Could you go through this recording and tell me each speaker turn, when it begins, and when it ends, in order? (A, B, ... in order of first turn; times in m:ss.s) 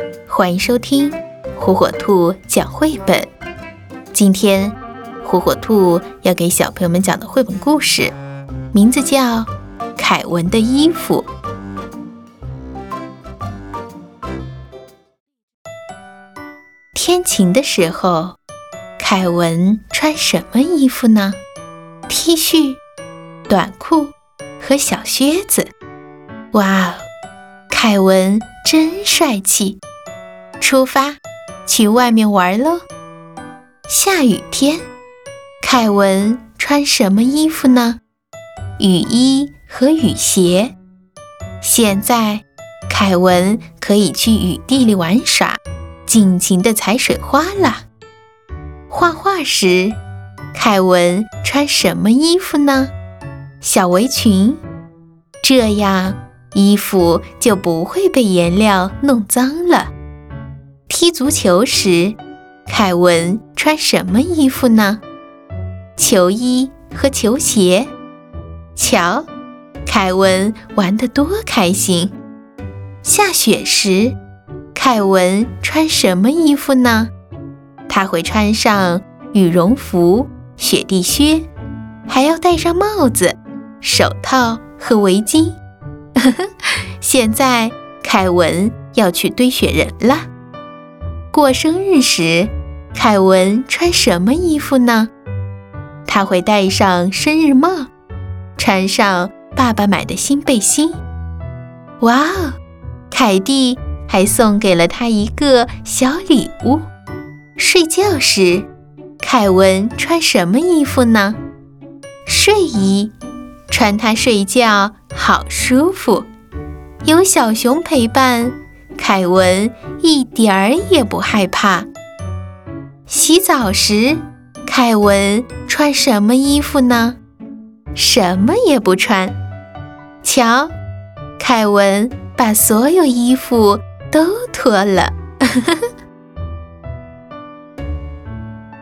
0:00.3-0:03.3 A
0:04.1-0:08.2 A
0:08.7-0:11.3 A
0:16.9-0:18.4 A
0:19.0-0:21.4 A
0:22.1-0:22.8 A
0:23.5-0:25.7 A
0:26.5-0:27.0 A
0:27.7-0:29.8 A
0:30.6-0:32.9 A
0:33.9-0:34.8 A
0:35.6-0:38.0 A
0:38.8-0:40.8 A
0:41.6-0:47.8 A
0:48.9-0:50.0 A
0:50.5-0:52.9 A
0:53.6-0:54.6 A
0:55.4-0:59.9 A
1:00.9-1:05.0 A
1:06.0-1:07.9 A
1:08.8-1:09.3 A
1:09.9-1:12.1 A
1:13.0-1:14.2 A
1:14.8-1:17.1 A
1:17.9-1:21.5 A
1:22.1-1:25.6 A
1:26.2-1:30.3 A
1:31.3-1:35.1 A
1:36.1-1:37.9 A
1:38.6-1:41.0 A
1:42.0-1:42.6 A
1:43.1-1:46.8 A
1:47.6-1:48.7 A
1:49.2-1:51.4 A
1:52.3-1:53.1 A
1:53.7-1:56.3 A
1:57.0-2:01.9 A
2:03.1-2:07.2 A
2:08.0-2:09.4 A
2:10.2-2:10.7 A
2:11.4-2:15.9 A